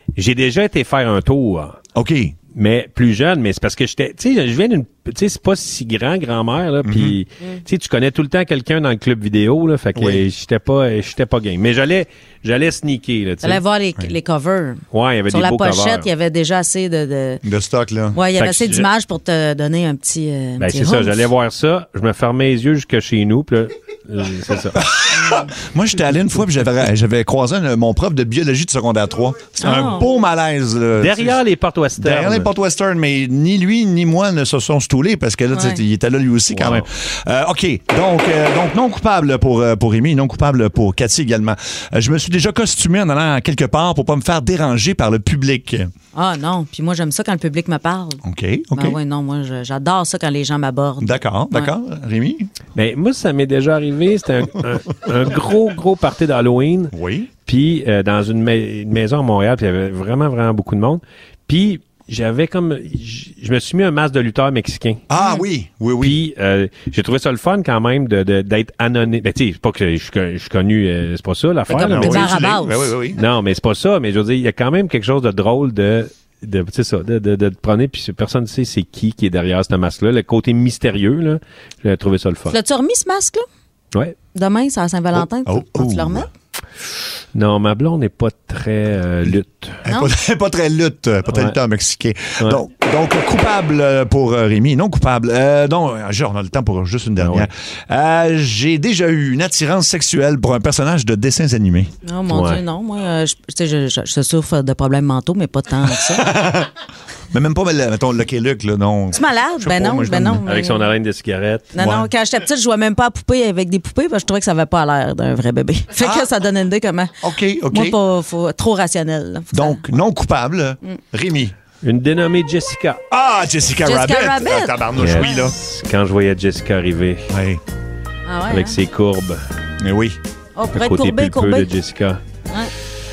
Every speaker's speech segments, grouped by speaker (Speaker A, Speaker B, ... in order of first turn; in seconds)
Speaker A: 0.1-1.8, 2.5-13.6, 14.9-16.1, 18.4-18.9, 20.6-24.9, 31.0-32.5, 36.5-36.9, 52.8-56.9, 57.5-65.0, 66.0-72.3, 73.1-82.6, 87.3-89.8, 91.3-91.6, 97.2-97.5, 102.3-102.6, 110.5-111.7, 121.8-123.0, 125.0-127.3, 128.5-129.4, 130.7-132.2
Speaker B: 1.9-2.4, 6.8-7.2, 9.9-10.2, 17.4-18.2, 24.8-31.4, 32.0-45.9, 48.2-49.0, 51.0-52.5, 56.9-57.3, 65.1-66.2, 71.7-73.2, 85.1-86.3, 89.9-101.9, 106.0-106.7, 107.3-110.4, 111.8-112.1, 116.0-116.3, 117.2-118.0, 119.5-121.5, 123.1-125.6, 127.3-127.6, 129.8-130.2
Speaker C: 13.4-17.4, 18.1-21.3, 25.1-25.5, 29.6-30.1, 35.5-35.8, 46.1-48.2, 48.7-51.7, 71.7-73.0, 82.5-83.4, 84.3-86.3, 89.9-90.1, 102.0-106.3, 109.1-110.9, 111.7-119.8, 123.8-125.4, 128.3-128.8, 130.6-131.7